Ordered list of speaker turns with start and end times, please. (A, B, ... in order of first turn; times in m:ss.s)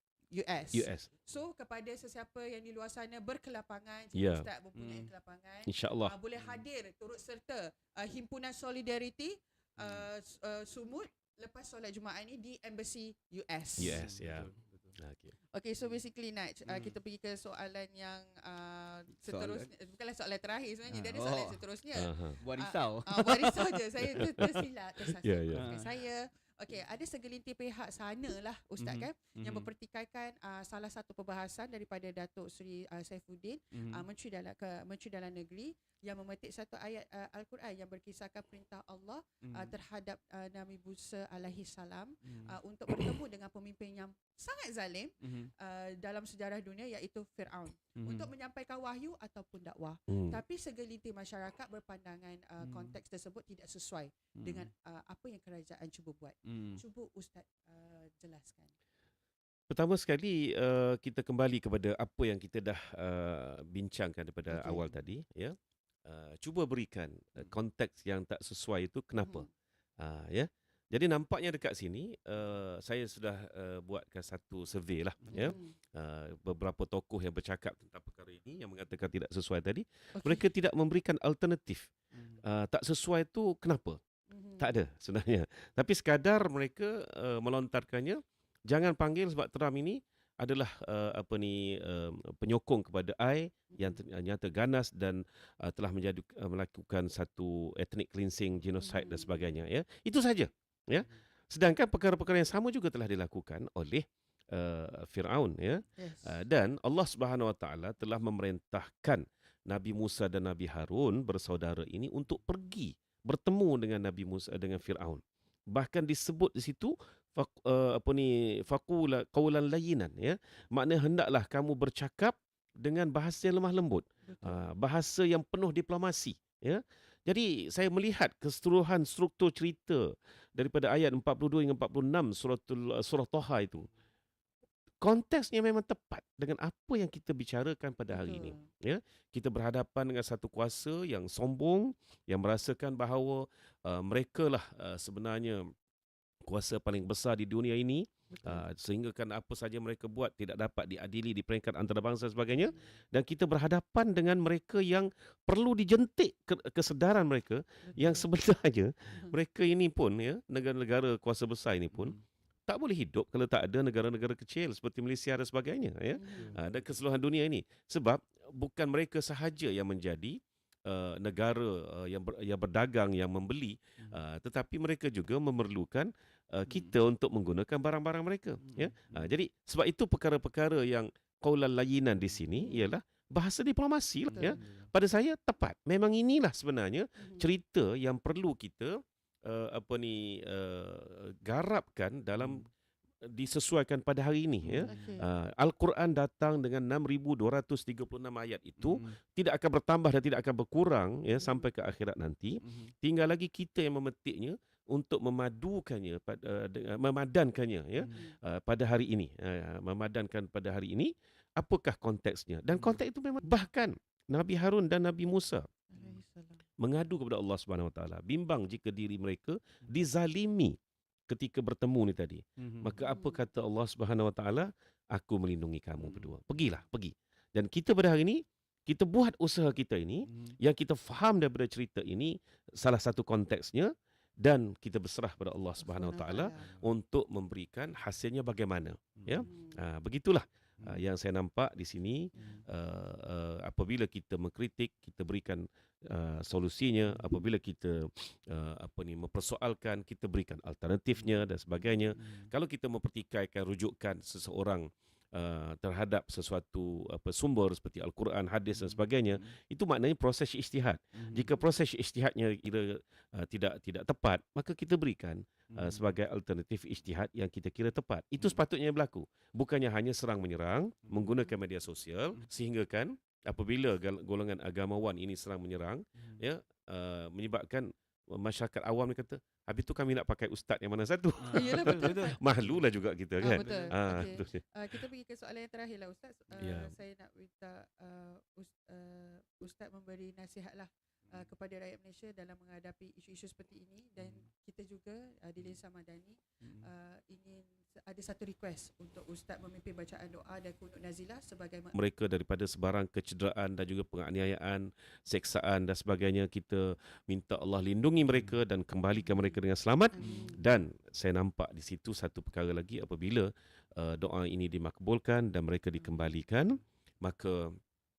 0:00.3-0:14.1 A
0:00.7-0:01.1 B
0:04.1-0:04.5 B
0:04.8-0:05.1 C
0:05.7-0:06.1 B
0:09.8-0:10.1 C
0:13.8-0:15.0 C
0:13.8-0:15.3 B
0:15.5-0:58.7 A
0:16.7-0:17.0 C
0:19.3-0:19.7 C
0:20.9-0:21.6 C
0:22.0-0:22.4 B
0:22.4-0:24.6 C
0:25.2-0:25.7 B
0:25.5-0:25.9 C
0:28.8-0:29.7 C
0:33.7-0:34.0 C
0:39.4-0:39.8 C
0:42.2-0:42.6 C
0:45.2-0:45.5 C
0:48.0-0:48.3 C
0:50.1-0:50.4 B
0:52.6-0:53.0 C
0:54.4-0:54.7 C
0:56.5-0:56.8 C
0:59.7-1:05.6 B
1:04.5-1:04.9 A
1:06.1-1:09.4 B
1:09.2-1:09.5 A
1:10.0-1:21.9 B
1:15.2-1:15.6 C
1:15.3-1:15.8 A
1:20.2-1:20.5 A
1:22.2-1:22.4 C
1:22.4-1:24.0 B
1:24.3-1:24.7 A
1:24.6-1:55.2 B
1:33.7-1:34.0 A
1:38.8-1:39.3 A
1:46.0-1:46.4 A
1:55.7-2:13.9 B
2:04.3-2:04.6 A
2:15.0-2:25.7 B
2:18.1-2:18.7 A
2:26.5-2:42.2 B
2:28.3-2:28.7 A
2:37.9-2:38.3 A
2:41.9-2:42.2 C
2:42.7-3:12.6 B
2:46.1-2:46.6 A
2:46.3-2:46.6 C
2:56.7-2:57.0 C
2:58.6-2:59.3 C
3:02.6-3:02.9 A
3:04.3-3:04.9 C
3:04.3-3:04.6 A
3:07.2-3:07.5 A
3:12.4-3:12.7 C
3:13.3-3:35.7 B
3:14.6-3:15.1 C
3:14.8-3:15.3 A
3:18.8-3:19.1 C
3:22.6-3:22.9 C
3:35.9-3:36.6 A
3:36.8-3:40.8 B
3:41.3-3:53.9 B
3:42.6-3:43.0 C
3:43.0-3:43.4 A
3:46.0-3:46.3 C
3:50.3-3:50.6 C
3:54.4-4:44.6 B
3:55.8-3:56.7 A
3:59.2-3:59.5 C
3:59.4-3:59.8 A
4:02.3-4:02.6 A
4:02.4-4:02.6 C
4:07.1-4:07.4 C
4:12.2-4:12.5 C
4:18.7-4:19.5 C
4:21.2-4:21.5 C
4:25.7-4:26.2 C
4:31.1-4:31.4 C
4:36.2-4:36.4 C
4:41.4-4:42.8 C
4:41.5-4:42.4 A
4:43.4-5:01.9 A
4:43.5-4:44.3 C
4:46.6-4:47.0 B
4:54.2-4:54.4 C
4:56.6-4:56.9 C
5:01.9-5:17.7 B
5:10.1-5:10.6 A
5:10.2-5:10.5 C